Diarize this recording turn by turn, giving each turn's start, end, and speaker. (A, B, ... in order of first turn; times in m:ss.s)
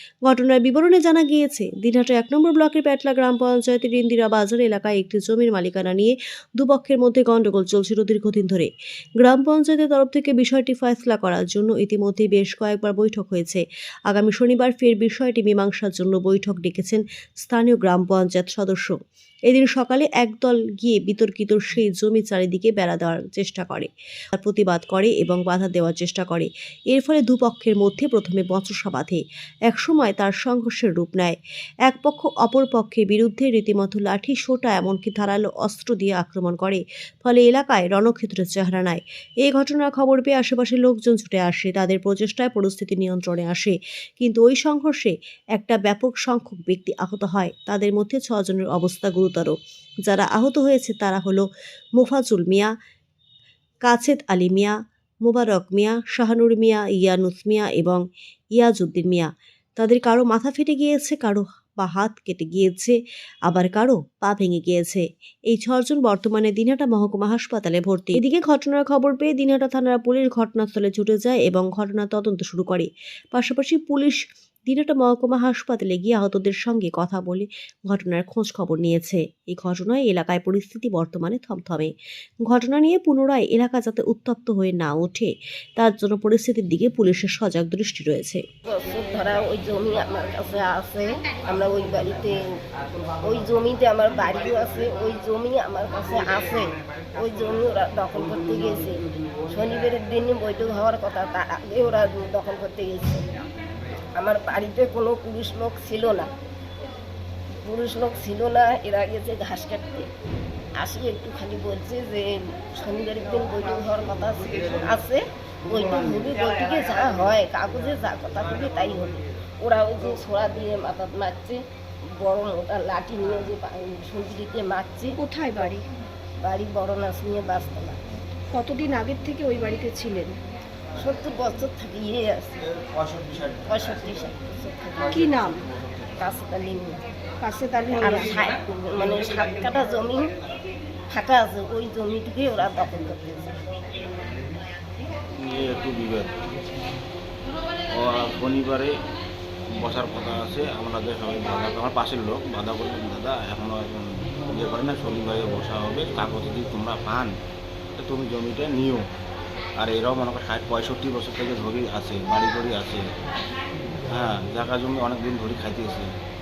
0:00.3-0:19.0 A
0:19.5-0:49.6 A
0:50.1-0:51.4 A
0:52.0-0:52.7 A
0:53.8-0:54.7 A
0:55.2-0:58.0 A
0:58.6-1:03.0 A
1:03.5-1:21.9 A
1:22.5-1:28.4 A
1:28.7-1:32.4 B
1:33.2-1:39.0 B
1:39.5-1:43.3 B
1:44.2-1:46.3 B
1:47.6-1:50.1 B
1:50.8-2:01.6 B
2:02.2-2:05.7 B
2:05.2-2:05.8 C
2:06.4-2:08.0 B
2:08.5-2:10.3 C
2:11.0-2:12.6 B
2:12.8-2:14.2 D
2:13.7-2:15.3 B
2:15.1-2:15.6 C
2:16.2-2:17.0 B
2:17.4-2:18.3 C
2:17.9-2:20.3 B
2:21.1-2:23.8 B
2:25.4-2:26.4 D
2:27.9-2:28.9 D
2:29.8-2:37.3 D
2:38.0-2:39.0 D
2:39.8-2:43.0 D
2:44.1-2:46.1 D